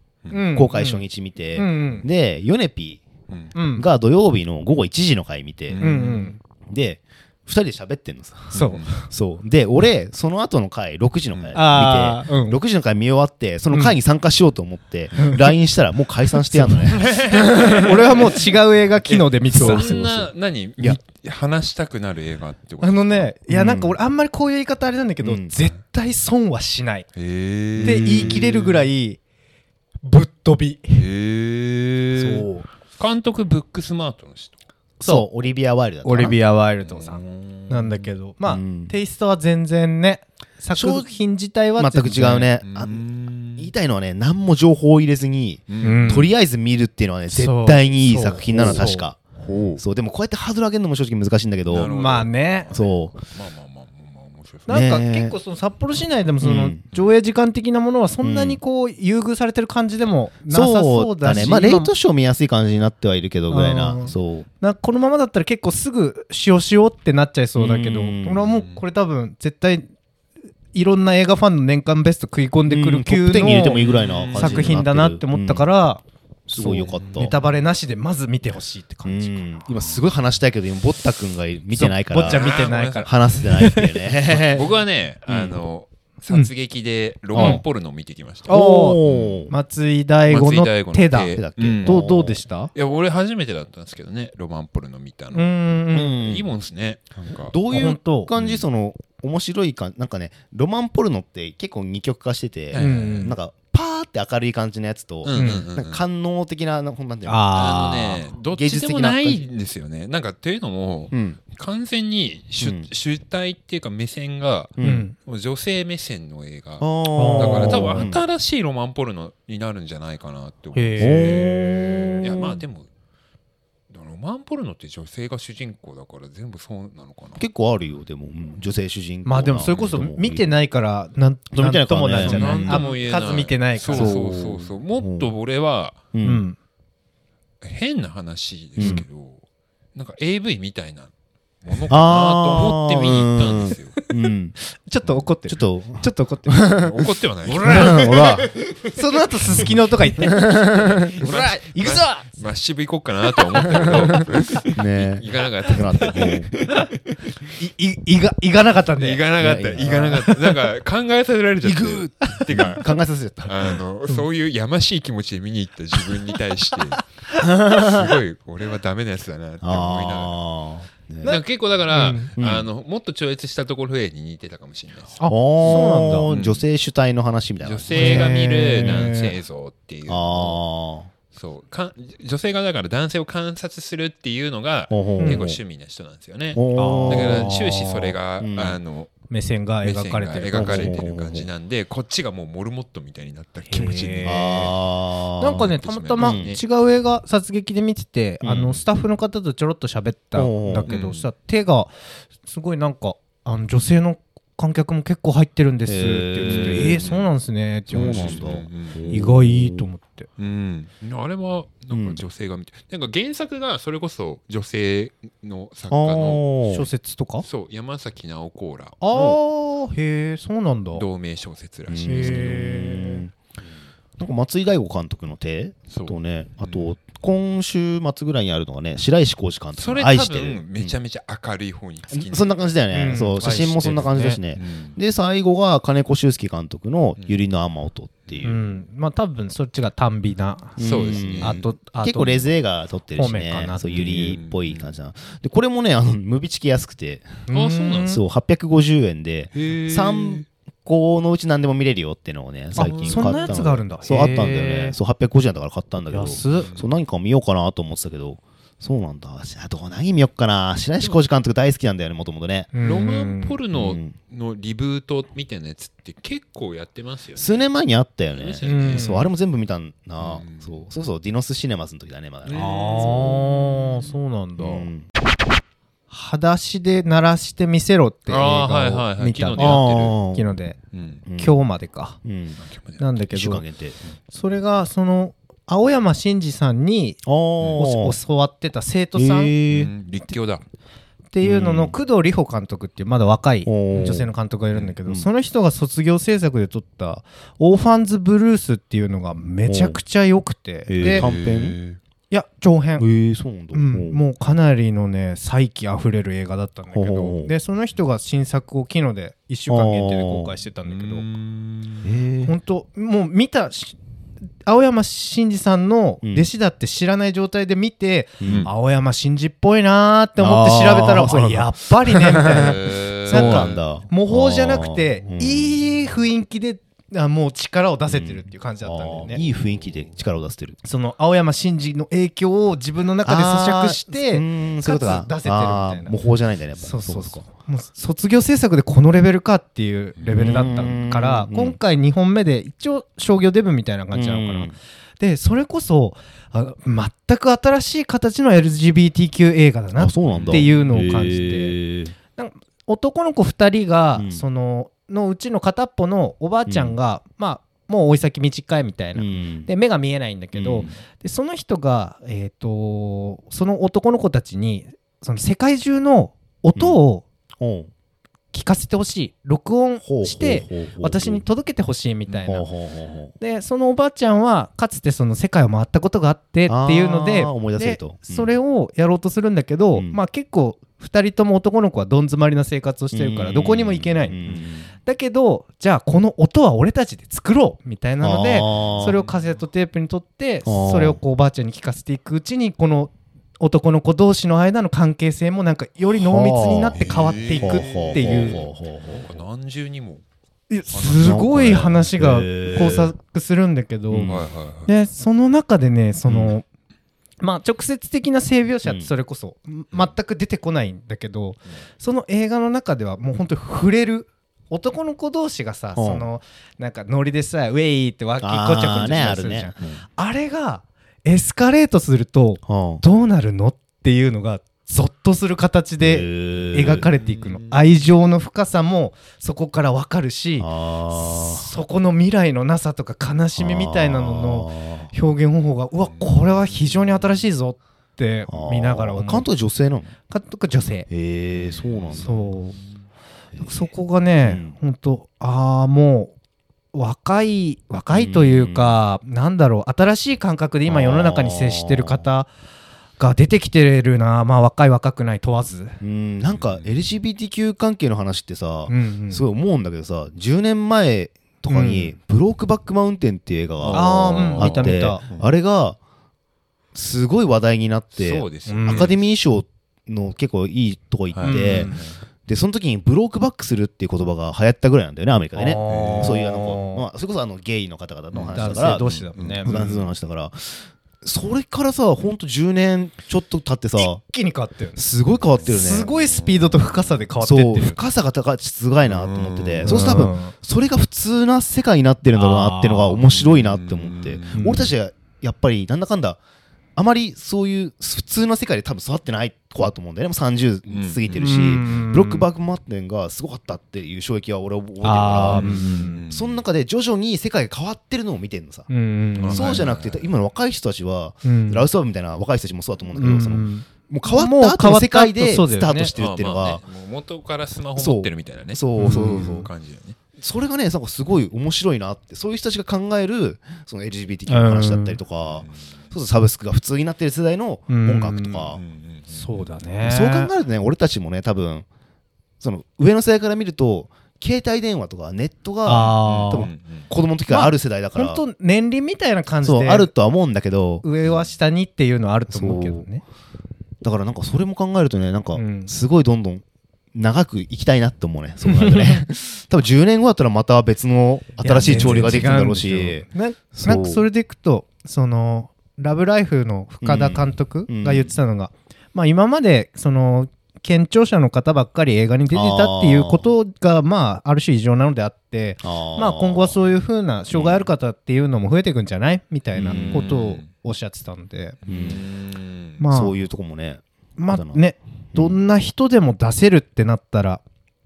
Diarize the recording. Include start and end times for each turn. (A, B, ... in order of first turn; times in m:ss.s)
0:00.3-0:01.0 A
0:00.5-0:03.0 B
0:01.5-0:02.0 A
0:03.5-0:03.8 A
0:03.8-0:05.9 B
0:05.7-0:06.3 C
0:05.8-0:06.4 A
0:06.6-0:18.2 B
0:08.5-0:09.0 C
0:08.5-0:09.1 A
0:11.3-0:11.6 C
0:11.5-0:12.6 A
0:13.7-0:14.0 A
0:15.2-0:15.6 A
0:16.5-0:20.0 A
0:16.9-0:18.3 C
0:19.0-0:23.3 C
0:19.5-0:21.0 B
0:22.8-0:27.1 A
0:23.5-0:24.0 B
0:25.2-0:25.5 B
0:27.1-0:28.9 C
0:27.8-0:28.5 B
0:27.8-0:29.2 A
0:30.0-0:31.0 A
0:30.9-0:34.6 C
0:32.2-0:32.6 B
0:35.0-0:36.4 B
0:35.0-0:35.3 A
0:36.0-0:42.5 A
0:36.8-0:38.1 C
0:38.4-0:38.9 B
0:40.7-0:41.1 B
0:41.8-0:43.0 B
0:42.6-0:43.7 C
0:43.6-0:49.2 B
0:45.7-0:46.1 C
0:45.8-0:46.3 A
0:47.3-0:49.0 A
0:48.5-0:48.8 C
0:49.4-0:49.8 C
0:49.8-0:51.9 B
0:51.7-0:54.8 C
0:51.8-0:52.7 A
0:52.7-0:53.2 B
0:54.7-0:55.3 B
0:54.7-1:01.9 A
0:56.4-0:56.8 B
0:58.2-0:58.6 B
1:00.5-1:04.4 B
1:03.5-1:09.9 A
1:07.6-1:08.5 B
1:08.5-1:08.8 C
1:10.7-1:16.0 A
1:12.7-1:15.7 B
1:13.4-1:14.8 C
1:16.5-1:17.3 B
1:16.6-1:19.4 A
1:16.8-1:17.3 C
1:19.0-1:24.7 B
1:21.7-1:24.0 A
1:22.2-1:23.4 C
1:24.3-1:29.5 C
1:25.3-1:25.6 B
1:27.3-1:27.6 A
1:27.3-1:27.6 B
1:28.5-1:32.7 A
1:28.5-1:29.5 B
1:30.3-1:32.0 C
1:31.3-1:32.4 B
1:32.7-1:35.5 C
1:35.3-1:36.2 A
1:35.9-1:36.5 B
1:36.2-1:37.6 C
1:37.5-1:49.4 B
1:37.7-1:38.3 A
1:38.4-1:38.6 C
1:42.7-1:43.3 C
1:42.8-1:43.4 A
1:45.2-1:46.0 C
1:45.3-1:45.6 A
1:47.2-1:48.2 A
1:47.5-2:01.6 C
1:51.1-1:51.4 B
1:52.6-1:52.9 B
1:54.8-1:55.0 B
1:54.8-1:55.1 A
1:56.8-1:58.2 B
1:57.1-1:58.1 A
2:00.7-2:02.2 A
2:01.0-2:02.6 B
2:02.2-2:02.9 C
2:03.9-2:07.4 C
2:07.4-2:10.5 B
2:09.2-2:14.2 A
2:09.7-2:10.0 C
2:11.5-2:12.8 B
2:12.2-2:16.0 C
2:13.9-2:15.3 B
2:16.1-2:16.4 B
2:16.2-2:16.6 A
2:17.6-2:19.4 C
2:18.8-2:19.0 B
2:19.9-2:21.1 C
2:21.6-2:23.9 C
2:21.9-2:24.6 B
2:24.8-2:26.6 A
2:25.5-2:28.5 B
2:26.8-2:29.0 C
2:27.5-2:30.4 A
2:30.2-2:31.3 B
2:30.8-2:37.5 C
2:31.2-2:32.4 A
2:33.6-2:34.0 A
2:33.6-2:34.2 B
2:34.7-2:36.5 B
2:36.0-2:36.3 A
2:37.6-2:39.2 A
2:39.0-2:42.9 C
2:39.4-2:40.3 B
2:39.8-2:40.6 A
2:41.6-2:43.8 B
2:43.4-2:47.0 C
2:47.4-2:48.1 B
2:47.7-2:50.4 C
2:49.6-2:51.4 B
2:51.2-2:52.3 A
2:51.2-2:55.7 C
2:52.4-2:52.7 B
2:55.2-2:56.3 A
2:55.2-2:59.1 B
2:56.2-2:56.6 C
2:57.6-3:00.6 C
2:57.9-2:59.4 A
3:00.1-3:01.1 B
3:01.3-3:09.1 C
3:04.9-3:05.6 B
3:05.2-3:05.4 A
3:06.5-3:07.5 B
3:06.7-3:08.1 A
3:08.4-3:08.8 B
3:09.3-3:11.0 A
3:09.8-3:14.7 C
3:10.5-3:11.5 B
3:13.7-3:14.7 A
3:14.2-3:16.5 B
3:15.4-3:28.5 A
3:15.4-3:16.6 C
3:18.4-3:18.8 B
3:20.3-3:20.9 B
3:20.9-3:21.3 C
3:25.8-3:27.1 B
3:26.4-3:27.3 C
3:27.9-3:29.9 B
3:27.9-3:29.3 C
3:29.1-3:30.3 A
3:30.4-3:36.4 C
3:31.9-3:32.2 B
3:35.9-3:36.9 B
3:36.7-3:37.4 A
3:37.4-3:39.4 C
3:39.0-3:41.0 A
3:40.9-3:42.5 C
3:41.9-3:43.3 B
3:42.0-3:43.2 A
3:44.2-3:50.9 B
3:45.9-3:46.9 C
3:49.8-3:52.5 C
3:52.1-3:58.6 B
3:52.9-3:54.4 A
3:53.4-3:55.0 C
3:58.4-4:02.5 A
4:00.8-4:07.4 B
4:00.8-4:01.7 C
4:03.1-4:04.3 A
4:03.9-4:04.8 C
4:07.5-4:08.2 A
4:07.5-4:08.2 C
4:08.1-4:22.7 B
4:09.5-4:10.4 C
4:12.7-4:15.0 A
4:12.8-4:13.7 C
4:16.1-4:16.7 A
4:16.5-4:16.9 C
4:22.7-4:23.6 A
4:22.8-4:27.6 C
4:23.7-4:24.1 B
4:27.4-4:33.5 B
4:28.3-4:29.2 C
4:28.6-4:29.2 A
4:30.2-4:30.8 C
4:32.4-4:34.1 C
4:32.5-4:34.9 A
4:34.6-4:35.0 B
4:36.1-4:40.8 A
4:38.3-4:40.2 C
4:39.5-4:40.4 B
4:40.9-4:41.2 C
4:41.2-4:41.6 B
4:41.3-4:42.2 A
4:42.2-4:42.6 B
4:42.6-4:43.0 C
4:43.0-4:43.6 A
4:43.3-4:44.0 B
4:44.3-4:49.5 A
4:47.2-4:48.2 B
4:49.1-4:49.9 B
4:49.7-4:50.6 C
4:51.3-5:01.2 A
4:51.4-4:52.0 B
4:53.6-4:54.3 B
4:59.7-5:00.0 B
5:00.9-5:01.8 B
5:01.0-5:02.0 C
5:02.3-5:03.0 A
5:03.0-5:04.2 B
5:03.7-5:11.2 A
5:06.9-5:07.5 B
5:09.7-5:10.5 B
5:10.8-5:12.1 C
5:12.0-5:12.5 B
5:12.4-5:14.0 A
5:14.6-5:29.4 A
5:16.2-5:16.5 B
5:18.4-5:18.7 B
5:18.4-5:18.7 C
5:20.4-5:25.8 B
5:22.4-5:23.8 C
5:28.1-5:30.8 B
5:30.8-5:36.1 A
5:33.2-5:37.4 B
5:36.8-5:51.8 A
5:40.2-5:40.5 C
5:40.3-5:41.8 B
5:44.1-5:44.7 B
5:49.9-5:52.1 B
5:50.3-5:50.9 C
5:52.3-6:07.2 A
5:54.2-5:54.4 B
5:56.7-5:57.0 B
5:59.1-5:59.7 B
6:00.5-6:00.9 B
6:07.6-6:07.9 B
6:08.5-6:12.7 A
6:10.0-6:11.4 B
6:12.4-6:13.3 B
6:13.4-6:38.6 A
6:16.7-6:18.5 B
6:23.1-6:24.8 B
6:28.2-6:29.2 B
6:28.8-6:29.6 C
6:30.6-6:31.2 B
6:36.2-6:37.1 B
6:36.9-6:40.2 C
6:37.6-6:39.2 B
6:40.7-6:46.6 A
6:40.9-6:42.0 C
6:41.2-6:43.1 B
6:44.1-6:44.4 B
6:44.2-6:44.9 C
6:46.3-6:46.5 B
6:47.4-7:19.4 A
6:48.8-6:49.1 B
6:55.9-6:56.3 B
6:58.4-7:00.0 B
7:02.7-7:03.0 B
7:06.0-7:07.1 B
7:06.6-7:07.8 C
7:10.6-7:11.7 B
7:13.6-7:15.1 B
7:16.0-7:17.2 C
7:18.5-7:20.1 B
7:20.3-7:21.1 A
7:21.1-7:22.5 B
7:21.6-7:23.0 C
7:22.1-7:22.8 A
7:23.6-7:26.3 A
7:24.4-7:24.8 B
7:26.9-7:32.5 A
7:28.1-7:29.0 B
7:30.8-7:32.3 B
7:33.2-7:36.0 A
7:36.0-7:46.0 B
7:36.5-7:36.9 C
7:38.9-7:39.4 A
7:41.6-7:42.1 A
7:43.8-7:45.5 C
7:43.9-7:45.2 A
7:46.9-7:51.9 B
7:48.2-7:49.1 C
7:48.7-7:49.1 A
7:51.3-7:52.2 C
7:51.4-7:52.0 A
7:52.5-7:59.1 B
7:55.5-7:57.0 A
7:55.9-7:56.4 C
7:58.3-8:00.1 C
7:58.5-7:59.7 A
7:59.6-8:04.2 B
8:04.0-8:05.0 A
8:05.0-8:06.1 B
8:05.5-8:07.2 C
8:05.6-8:08.0 A
8:07.4-8:16.4 B
8:09.0-8:10.1 C
8:09.8-8:10.5 A
8:12.3-8:13.2 A
8:13.3-8:14.6 C
8:14.6-8:14.9 A
8:17.0-8:28.9 B
8:20.9-8:21.4 C
8:21.3-8:22.5 A
8:25.0-8:26.2 A
8:25.5-8:26.6 C
8:28.9-8:29.8 A
8:29.4-8:30.2 C
8:29.4-8:36.8 B
8:31.4-8:31.9 A
8:33.1-8:36.1 A
8:36.2-8:40.2 C
8:38.0-8:39.7 B
8:39.0-8:39.6 A
8:40.4-8:48.8 B
8:44.5-8:45.2 A
8:45.4-8:46.0 C
8:47.9-8:48.7 A
8:48.7-8:49.7 C
8:49.3-8:50.5 A
8:50.0-8:51.8 B
8:52.6-8:58.4 B
8:55.8-8:56.7 A
8:56.2-8:57.1 C
8:57.5-9:00.1 A
8:59.6-9:01.0 B
9:01.0-9:03.2 A
9:02.5-9:03.0 B
9:04.0-9:14.2 B
9:05.6-9:05.9 A
9:08.6-9:09.2 A
9:11.6-9:31.8 A
9:17.0-9:18.3 B
9:22.5-9:23.5 B
9:25.8-9:26.8 B
9:27.5-9:27.9 B
9:29.7-9:30.3 B
9:29.9-9:30.7 C
9:31.8-9:33.0 C
9:31.9-9:32.2 B
9:33.0-9:33.3 A
9:33.1-9:34.8 B
9:34.4-9:37.6 A
9:35.3-9:35.6 B